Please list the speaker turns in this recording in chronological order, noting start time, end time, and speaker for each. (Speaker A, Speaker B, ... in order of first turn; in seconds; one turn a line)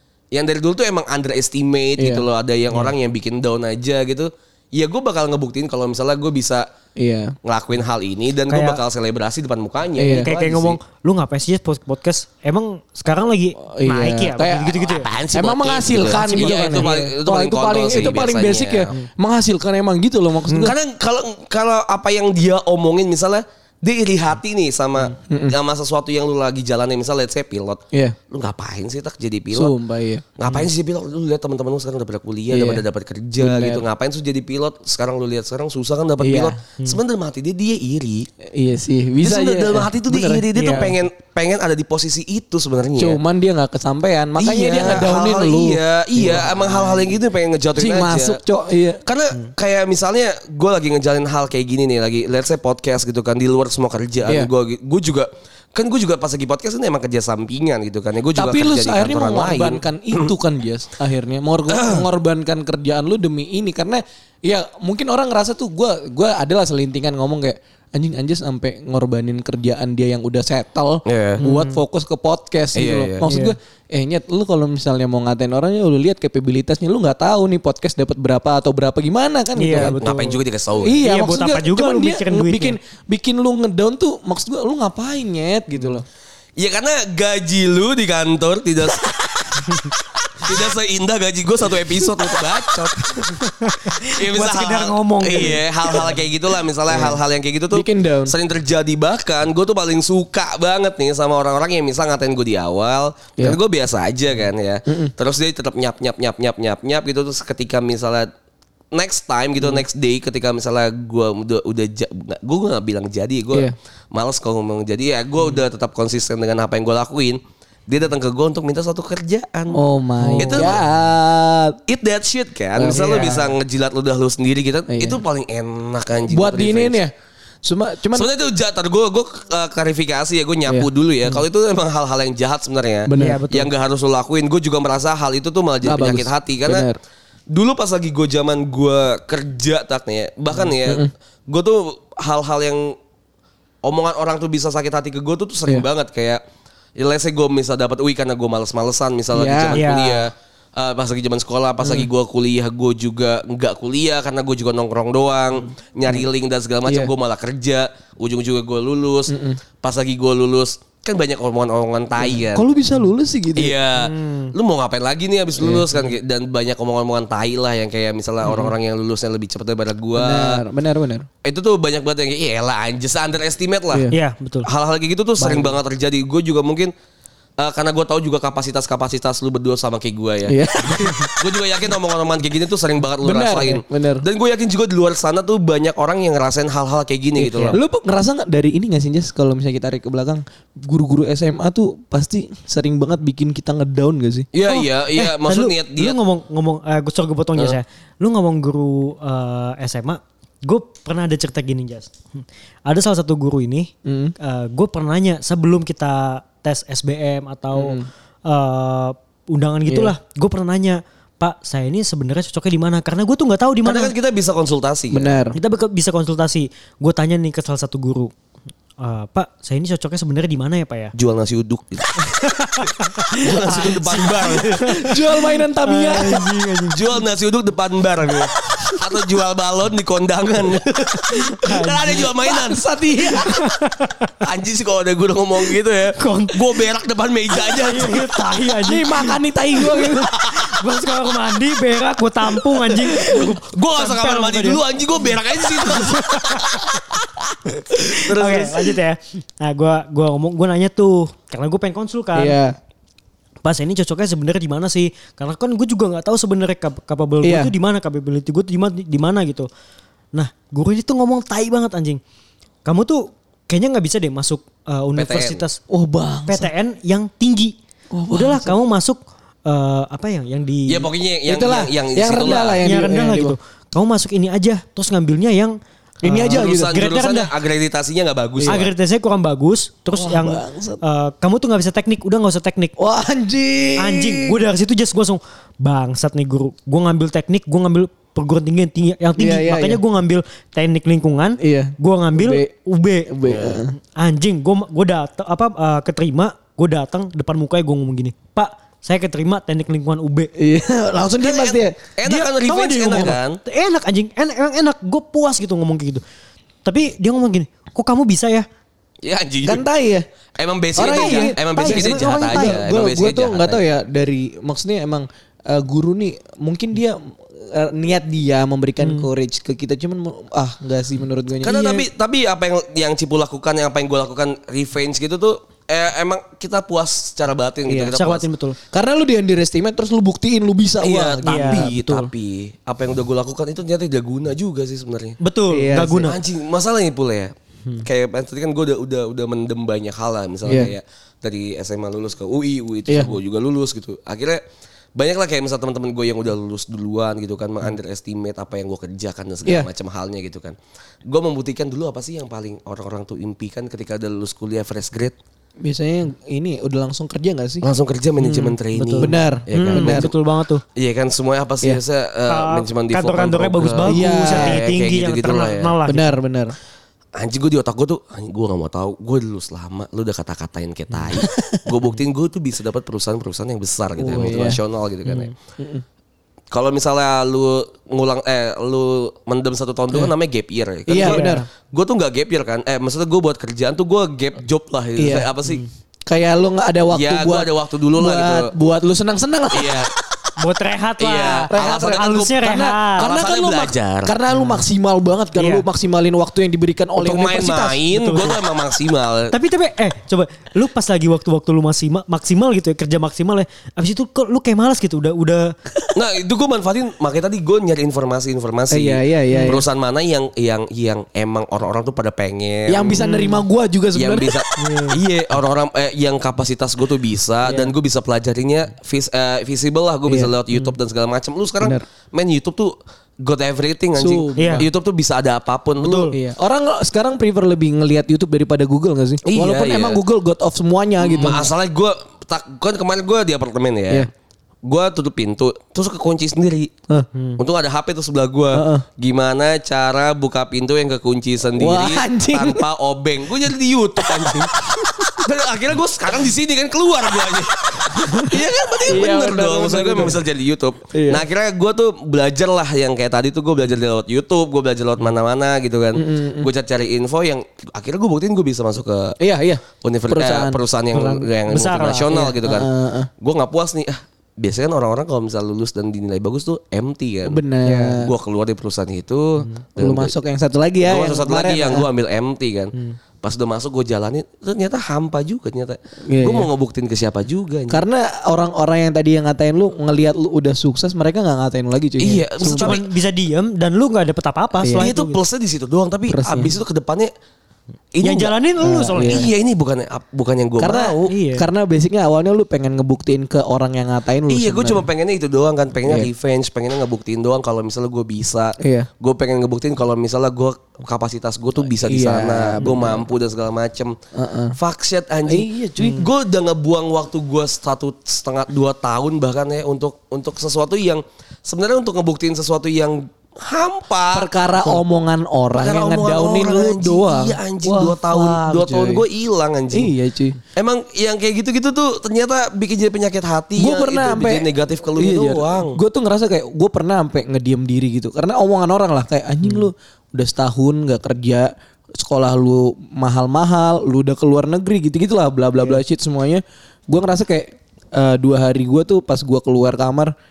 Speaker A: 0.3-6.6
Speaker B: 2.0-2.2
Speaker B: 7.0-7.3
Speaker A: 7.4-10.8
Speaker C: 8.5-8.8
Speaker B: 10.0-10.3
Speaker C: 10.1-15.1
Speaker B: 13.6-14.8
Speaker A: 14.7-18.9
Speaker B: 15.3-20.7
Speaker C: 16.0-16.9
Speaker A: 20.5-29.7
Speaker B: 25.2-25.6
Speaker B: 29.5-30.2
Speaker A: 30.4-38.3
Speaker B: 32.5-32.8
Speaker B: 33.4-33.8
Speaker B: 36.2-36.6
Speaker B: 38.5-40.9
Speaker A: 39.2-43.2
Speaker C: 40.5-40.9
Speaker B: 43.0-47.1
Speaker A: 44.4-48.4
Speaker B: 47.8-49.0
Speaker A: 49.0-60.3
Speaker B: 54.2-54.5
Speaker B: 58.3-80.0
Speaker A: 61.7-62.0
Speaker A: 71.0-71.4
Speaker C: 71.4-71.8
Speaker A: 72.7-73.2
Speaker C: 73.2-73.5
Speaker C: 79.6-80.4
Speaker A: 79.7-81.0
Speaker B: 80.8-86.0
Speaker C: 81.0-82.8
Speaker A: 86.6-89.6
Speaker A: 90.3-93.4
Speaker C: 93.3-96.1
Speaker A: 94.0-108.3
Speaker B: 96.9-97.2
Speaker B: 97.7-98.3
Speaker B: 104.8-105.1
Speaker A: 108.9-119.8
Speaker B: 119.7-121.8
Speaker C: 120.2-120.7
Speaker A: 120.4-120.8
Speaker A: 121.9-127.0
Speaker B: 122.8-123.5
Speaker B: 124.9-125.2
Speaker B: 126.3-127.1
Speaker B: 127.6-128.3
Speaker A: 128.1-136.9
Speaker B: 133.1-133.4
Speaker C: 133.2-133.7
Speaker B: 135.8-137.0
Speaker A: 137.5-142.9
Speaker B: 140.7-141.1
Speaker A: 143.8-146.4
Speaker A: 147.0-162.7
Speaker B: 149.3-149.9
Speaker C: 149.7-150.3
Speaker B: 159.3-159.6
Speaker B: 162.2-163.8
Speaker A: 163.5-170.6
Speaker C: 163.9-164.5
Speaker B: 165.6-166.0
Speaker B: 168.4-168.7
Speaker B: 170.2-171.3
Speaker A: 171.4-174.1
Speaker B: 173.9-174.2
Speaker C: 174.1-174.7
Speaker A: 174.6-176.9
Speaker B: 175.4-175.7
Speaker A: 177.6-187.8
Speaker B: 180.5-181.3
Speaker B: 183.2-184.2
Speaker C: 187.4-187.8
Speaker B: 187.7-194.5
Speaker A: 194.5-196.2
Speaker C: 194.7-214.1
Speaker B: 204.1-204.3
Speaker B: 207.7-208.1
Speaker B: 209.9-210.1
Speaker A: 213.8-215.4
Speaker B: 215.1-215.6
Speaker C: 215.5-218.3
Speaker C: 219.0-221.1
Speaker A: 221.1-225.0
Speaker C: 222.2-227.2
Speaker B: 224.8-226.5
Speaker A: 226.9-233.3
Speaker C: 231.5-232.3
Speaker B: 232.3-233.6
Speaker C: 233.5-234.2
Speaker A: 234.4-238.5
Speaker C: 236.2-236.7
Speaker C: 237.6-244.8
Speaker B: 238.8-240.3
Speaker A: 240.0-240.8
Speaker A: 242.9-248.9
Speaker C: 245.8-246.9
Speaker C: 247.9-252.6
Speaker B: 252.3-252.8
Speaker C: 253.6-259.7
Speaker B: 257.4-257.7
Speaker C: 260.3-262.2
Speaker C: 262.8-265.8
Speaker A: 265.1-265.6
Speaker B: 265.9-266.7
Speaker C: 266.5-267.7
Speaker B: 268.1-268.7
Speaker C: 268.3-271.1
Speaker A: 270.9-272.8
Speaker B: 271.5-273.5
Speaker C: 272.8-277.5
Speaker B: 276.2-276.9
Speaker A: 276.4-278.9
Speaker B: 278.6-278.9
Speaker C: 278.6-282.9
Speaker B: 280.1-281.0
Speaker B: 283.0-284.6
Speaker C: 284.0-300.5
Speaker B: 289.4-290.0
Speaker B: 291.6-292.7
Speaker B: 293.3-293.9
Speaker A: 293.5-293.8
Speaker B: 300.6-302.0
Speaker A: 301.4-303.6
Speaker C: 302.2-306.2
Speaker C: 306.8-308.6
Speaker A: 309.2-309.8
Speaker B: 309.6-310.2
Speaker A: 310.6-313.8
Speaker B: 310.9-322.1
Speaker C: 311.0-312.8
Speaker C: 319.0-319.3
Speaker A: 321.6-328.5
Speaker B: 327.9-328.1
Speaker C: 328.1-328.8
Speaker B: 328.9-332.0
Speaker A: 331.0-335.4
Speaker C: 331.4-332.3
Speaker C: 335.4-336.4
Speaker B: 335.7-336.3
Speaker A: 336.2-344.6
Speaker B: 340.6-340.9
Speaker B: 343.1-343.3
Speaker A: 345.1-355.3
Speaker B: 355.8-357.8
Speaker A: 357.8-360.3
Speaker B: 358.4-360.3
Speaker C: 358.9-360.8
Speaker A: 360.9-365.9
Speaker C: 362.5-366.3
Speaker B: 364.1-364.8
Speaker B: 366.1-366.7
Speaker A: 367.4-375.5
Speaker B: 371.4-371.8
Speaker B: 374.2-374.8
Speaker C: 375.3-375.5
Speaker B: 375.8-376.0
Speaker A: 376.7-385.8
Speaker B: 381.1-381.6
Speaker C: 381.2-381.6
Speaker B: 385.2-385.5
Speaker B: 386.3-390.1
Speaker A: 387.1-388.7
Speaker A: 389.7-390.1
Speaker C: 390.6-393.3
Speaker A: 391.2-392.6
Speaker B: 391.7-398.0
Speaker A: 393.2-394.3
Speaker C: 394.5-394.8
Speaker C: 395.6-395.9
Speaker A: 397.2-399.5
Speaker C: 398.1-398.6
Speaker C: 399.5-405.7
Speaker A: 406.1-413.3
Speaker B: 408.9-409.8
Speaker C: 409.5-409.8
Speaker B: 412.9-414.6
Speaker C: 413.2-413.6
Speaker A: 414.1-426.3
Speaker C: 414.8-415.2
Speaker B: 420.3-420.5
Speaker B: 424.1-424.9
Speaker C: 424.6-424.9
Speaker C: 426.0-426.3
Speaker B: 426.3-431.7
Speaker A: 429.4-430.2
Speaker A: 431.2-434.3
Speaker A: 434.8-436.9
Speaker C: 437.3-437.6
Speaker A: 437.6-459.4
Speaker B: 438.7-439.0
Speaker B: 441.8-442.8
Speaker B: 444.3-445.4
Speaker B: 448.0-448.5
Speaker B: 449.1-450.4
Speaker B: 451.1-451.4
Speaker B: 456.1-456.7
Speaker B: 459.4-460.8
Speaker A: 460.0-470.3
Speaker C: 461.1-462.6
Speaker B: 462.6-463.3
Speaker B: 467.4-468.3
Speaker B: 470.0-472.1
Speaker A: 471.0-478.0
Speaker B: 476.2-476.7
Speaker B: 477.9-483.0
Speaker A: 482.2-483.0
Speaker C: 482.6-485.4
Speaker B: 484.8-485.1
Speaker A: 484.9-487.3
Speaker B: 486.3-486.7
Speaker A: 488.1-488.5
Speaker C: 488.2-489.5
Speaker B: 488.8-489.4
Speaker A: 489.2-491.3
Speaker B: 490.8-495.0
Speaker C: 491.3-491.6
Speaker A: 494.5-504.1
Speaker B: 498.8-499.1
Speaker B: 502.1-503.2
Speaker B: 504.3-504.7
Speaker A: 504.8-515.0
Speaker B: 505.5-506.2
Speaker B: 514.3-519.2
Speaker A: 515.7-520.1
Speaker B: 519.9-520.6
Speaker A: 520.7-526.0
Speaker B: 523.8-540.3